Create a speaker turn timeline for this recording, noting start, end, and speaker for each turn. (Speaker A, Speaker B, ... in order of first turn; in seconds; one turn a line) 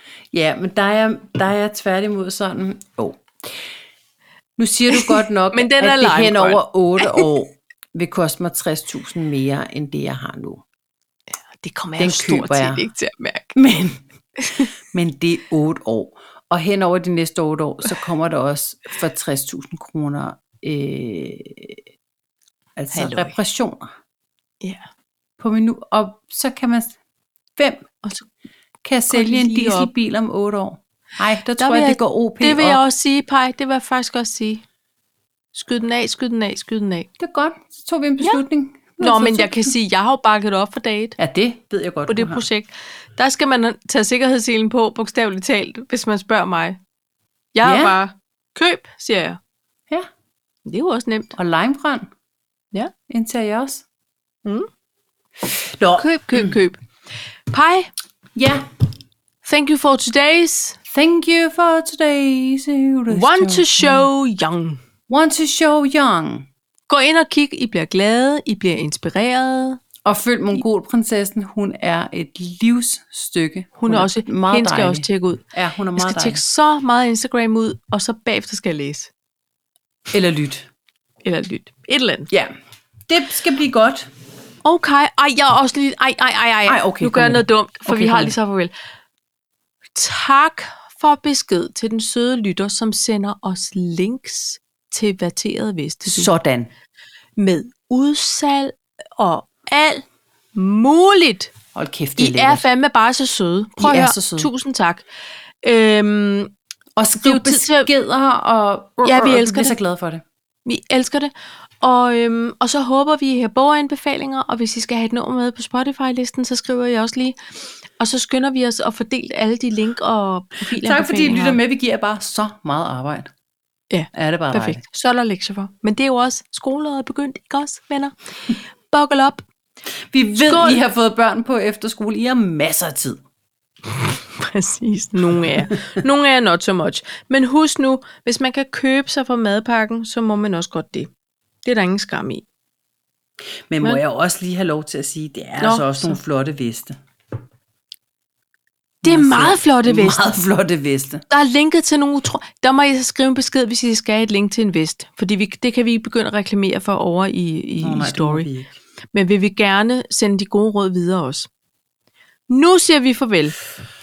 Speaker A: 0.3-3.5
Speaker A: 4.6-10.6
Speaker B: 4.9-7.3
Speaker B: 11.5-13.6
Speaker A: 12.0-12.8
Speaker A: 13.5-14.0
Speaker B: 14.4-14.7
Speaker A: 14.9-21.8
Speaker A: 22.8-23.9
Speaker B: 22.9-23.3
Speaker A: 25.4-27.0
Speaker A: 27.6-27.8
Speaker A: 28.8-32.8
Speaker B: 29.1-29.9
Speaker B: 31.6-34.6
Speaker B: 35.5-37.1
Speaker A: 37.2-39.7
Speaker B: 39.0-41.1
Speaker A: 41.2-42.4
Speaker B: 42.1-46.8
Speaker B: 47.5-49.4
Speaker A: 47.6-48.0
Speaker B: 50.6-51.3
Speaker A: 51.3-52.1
Speaker A: 53.1-53.8
Speaker A: 55.4-56.6
Speaker B: 56.0-56.8
Speaker B: 57.5-57.9
Speaker A: 58.3-58.6
Speaker B: 59.4-60.8
Speaker A: 60.9-64.1
Speaker B: 63.1-64.8
Speaker A: 65.1-66.5
Speaker B: 66.9-69.8
Speaker A: 70.0-76.4
Speaker B: 73.8-75.4
Speaker B: 76.0-79.1
Speaker A: 80.1-80.7
Speaker B: 81.2-82.3
Speaker A: 83.1-84.1
Speaker B: 84.6-88.7
Speaker A: 86.7-88.3
Speaker B: 89.9-96.3
Speaker A: 96.1-96.7
Speaker B: 97.4-101.5
Speaker A: 101.7-102.6
Speaker B: 102.2-105.0
Speaker A: 103.8-104.5
Speaker B: 105.6-106.5
Speaker A: 107.0-110.2
Speaker B: 107.2-107.9
Speaker B: 109.0-109.8
Speaker B: 110.7-117.4
Speaker B: 118.0-121.6
Speaker A: 120.6-123.3
Speaker B: 123.9-129.4
Speaker A: 124.1-124.8
Speaker A: 130.1-133.2
Speaker B: 130.4-130.8
Speaker B: 133.8-141.1
Speaker B: 141.6-142.4
Speaker A: 143.7-147.0
Speaker B: 145.6-146.2
Speaker A: 149.0-151.2
Speaker B: 149.0-150.2
Speaker B: 151.3-158.5
Speaker A: 157.8-158.7
Speaker B: 159.1-161.5
Speaker B: 162.5-163.6